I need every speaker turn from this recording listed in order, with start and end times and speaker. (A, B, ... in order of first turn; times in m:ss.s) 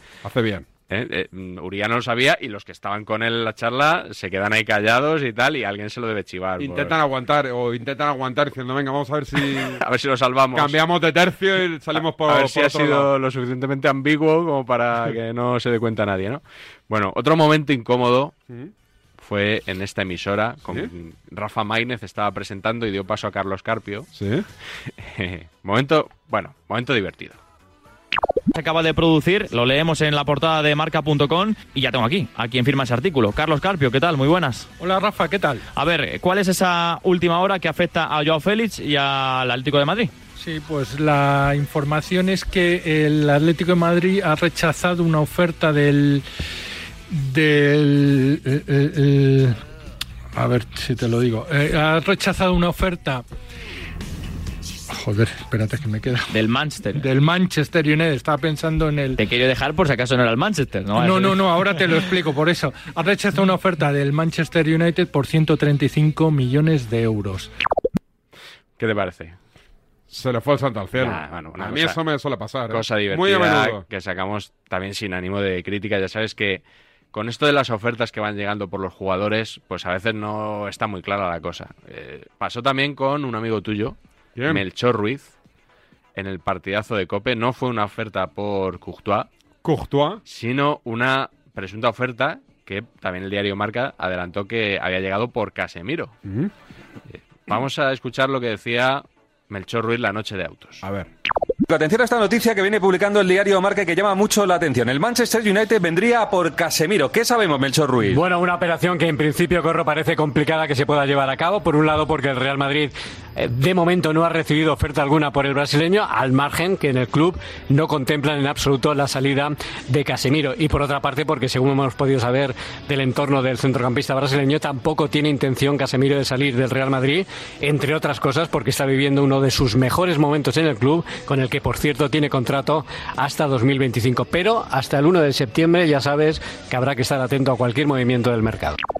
0:00.2-0:00.7 A
0:00.9-0:07.0 B
0:06.6-0:09.8 A
0:09.5-0:10.8 B
0:10.5-0:13.1 A
0:11.9-0:18.4 B
0:19.2-0:24.1 B
0:24.1-0:24.4 A
0:25.0-0:27.4 B
0:28.5-0:34.7 C
0:34.8-0:35.6 D
0:35.8-0:40.1 C
0:40.4-0:46.2 D
0:47.1-0:49.6 D
0:50.3-0:53.2 D
0:54.9-0:56.3 D
0:56.3-0:57.0 C
0:56.9-0:59.2 D
0:59.2-1:01.4 C
1:01.0-1:07.5 D
1:08.8-1:09.4 B
1:10.1-1:13.8 A
1:11.0-1:12.0 B
1:12.7-1:25.3 B
1:24.4-1:24.6 A
1:26.1-1:29.3 B
1:29.6-1:30.2 A
1:30.2-1:36.1 B
1:36.2-1:36.5 A
1:37.1-1:40.8 B
1:40.8-1:41.1 A
1:41.7-1:48.2 E
1:48.0-2:18.8 F